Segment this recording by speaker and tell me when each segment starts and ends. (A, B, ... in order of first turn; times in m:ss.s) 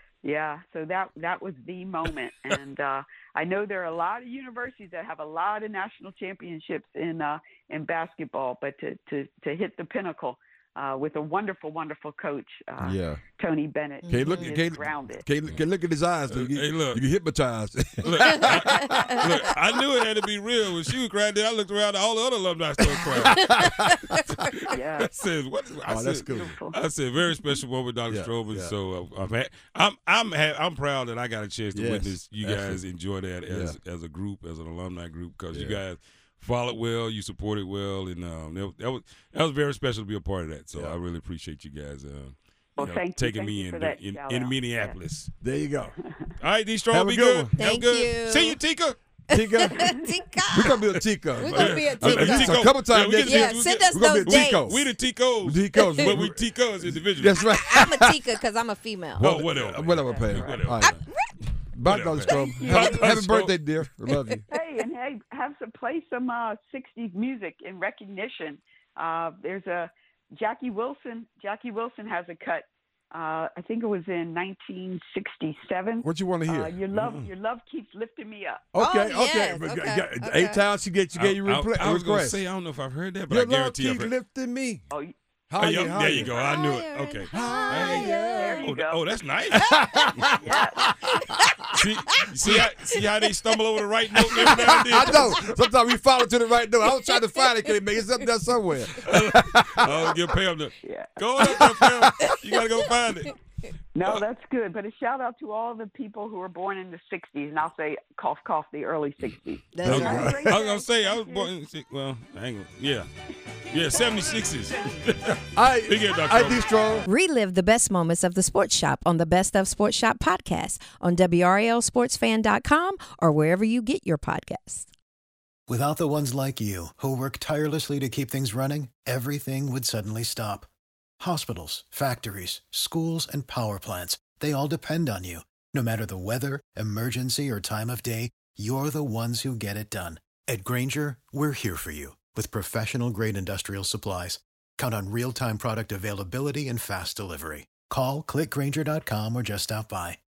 0:00.2-0:15.2 A
0:12.8-0:13.2 B
0:14.0-0:14.5 C
0:14.1-0:19.4 B
0:16.3-0:17.0 D
0:18.0-0:23.9 D
0:18.3-0:19.2 C
0:23.0-0:24.5 B
0:23.6-0:23.9 C
0:24.6-0:45.3 D
0:24.7-0:25.1 A
0:25.9-0:26.5 B
0:26.3-0:26.8 A
0:28.1-0:28.7 B
0:31.7-0:32.8 B
0:33.4-0:33.8 B
0:35.5-0:35.8 B
0:42.8-0:45.0 A
0:45.4-0:46.0 B
0:46.4-0:49.0 D
0:46.9-0:47.6 B
0:47.6-0:48.6 C
0:49.3-0:58.3 B
0:49.3-0:54.6 C
0:51.4-0:57.4 D
0:55.8-0:56.1 C
0:57.4-0:59.4 C
0:59.2-1:01.0 B
0:59.2-1:01.1 D
1:01.7-1:04.5 B
1:01.8-1:03.6 D
1:02.2-1:03.1 C
1:04.1-1:04.4 C
1:04.5-1:18.6 A
1:16.0-1:16.8 B
1:16.9-1:17.3 D
1:18.7-1:22.4 B
1:18.8-1:20.6 C
1:21.1-1:24.1 D
1:23.3-1:24.9 B
1:25.5-1:26.3 B
1:25.6-1:30.1 D
1:25.9-1:28.6 C
1:27.3-1:28.6 B
1:28.0-1:29.0 A
1:29.5-1:30.4 C
1:29.5-1:31.8 B
1:30.3-1:30.9 A
1:31.0-1:32.3 C
1:31.7-1:35.4 D
1:32.4-1:32.7 B
1:34.2-1:40.1 B
1:34.3-1:35.4 C
1:36.9-1:37.5 C
1:39.0-1:43.4 D
1:40.8-1:41.1 A
1:41.4-1:42.4 B
1:43.9-1:51.5 A
1:49.7-1:50.5 C
1:49.8-1:53.1 D
1:49.8-1:50.5 B
1:53.7-1:56.7 D
1:55.5-1:57.1 B
1:57.0-2:04.9 C
2:05.7-2:10.7 E
2:11.2-2:30.2 E